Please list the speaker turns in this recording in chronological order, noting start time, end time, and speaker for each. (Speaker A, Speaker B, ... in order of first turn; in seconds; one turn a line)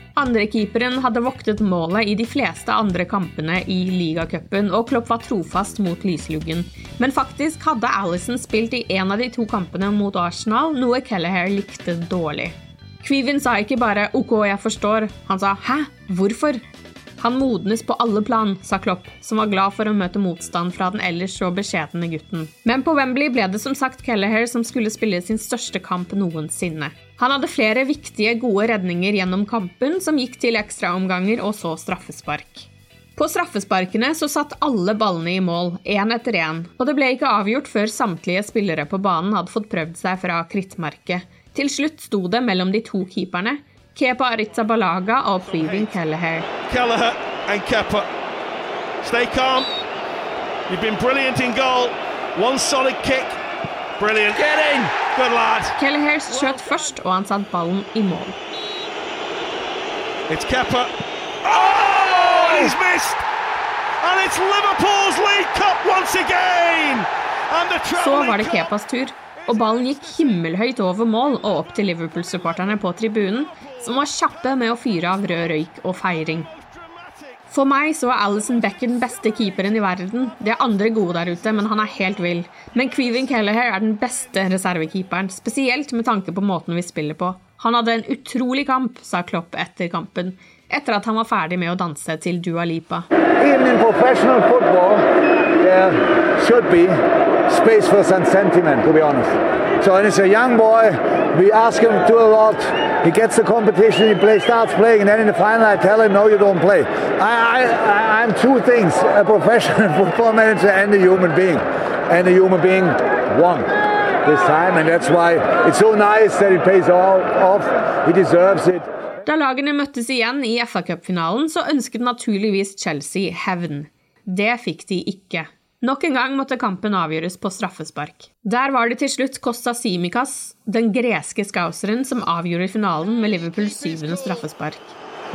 Speaker A: 0.1-16.6
Speaker A: 17.2-46.5
Speaker B: 45.4-46.0
Speaker B: 46.7-48.1
Speaker B: 49.0-49.7
Speaker B: 50.7-53.4
Speaker B: 54.0-55.8
Speaker A: 55.8-58.4
Speaker B: 56.3-56.9
Speaker B: 60.3-60.9
Speaker B: 61.4-63.2
Speaker B: 64.0-68.7
Speaker A: 67.9-76.5
Speaker B: 69.3-70.4
Speaker B: 72.4-72.8
Speaker B: 73.4-74.0
Speaker B: 76.4-77.4
Speaker A: 77.5-93.1
Speaker C: 93.4-95.0
Speaker C: 95.6-113.7
Speaker C: 114.2-118.9
Speaker A: 119.2-134.9
Speaker B: 133.1-134.4